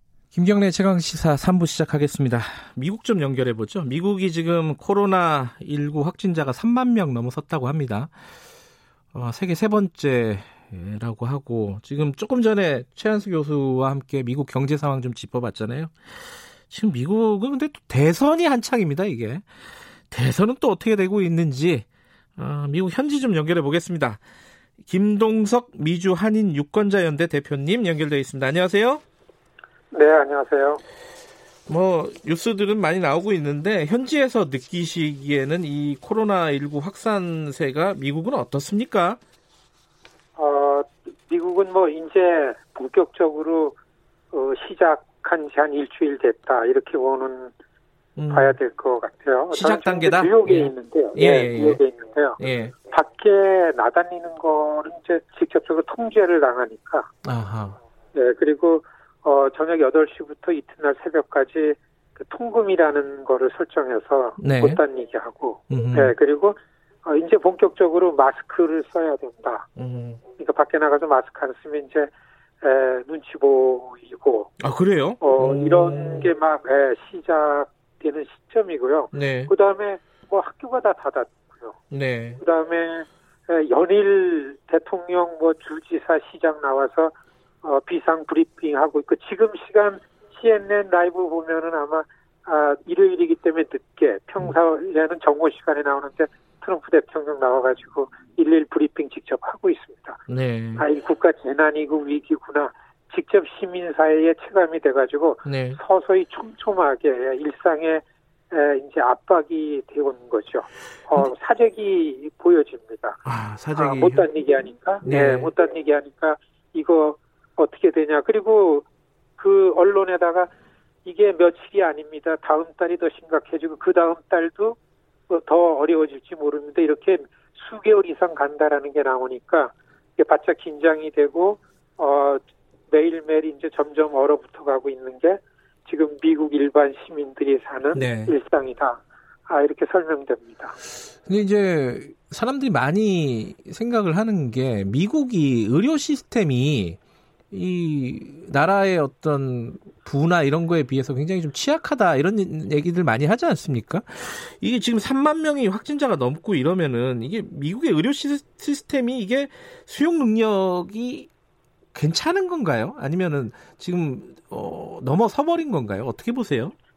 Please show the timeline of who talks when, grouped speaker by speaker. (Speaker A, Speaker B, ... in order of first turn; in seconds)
Speaker A: 0.3-8.1, 9.1-16.0, 16.7-19.5, 20.1-21.9, 22.4-24.2, 24.8-29.0, 31.7-39.2, 48.2-48.5, 49.5-51.8, 52.4-52.7, 57.2-57.8, 64.4-64.8, 65.7-66.1, 69.8-70.2, 74.6-76.3, 79.1-79.5, 81.9-82.4, 100.3-100.8, 105.4-105.8, 113.2-114.3, 115.0-115.5, 137.9-138.3, 141.2-147.0, 147.5-161.3, 161.9-166.7
Speaker B: 29.9-30.8, 40.4-43.8, 44.3-47.5, 48.3-57.1, 58.1-69.7, 70.4-74.5, 75.2-81.8, 82.4-100.2, 100.8-113.2, 113.7-118.9, 119.4-120.5, 121.0-124.8, 125.3-140.8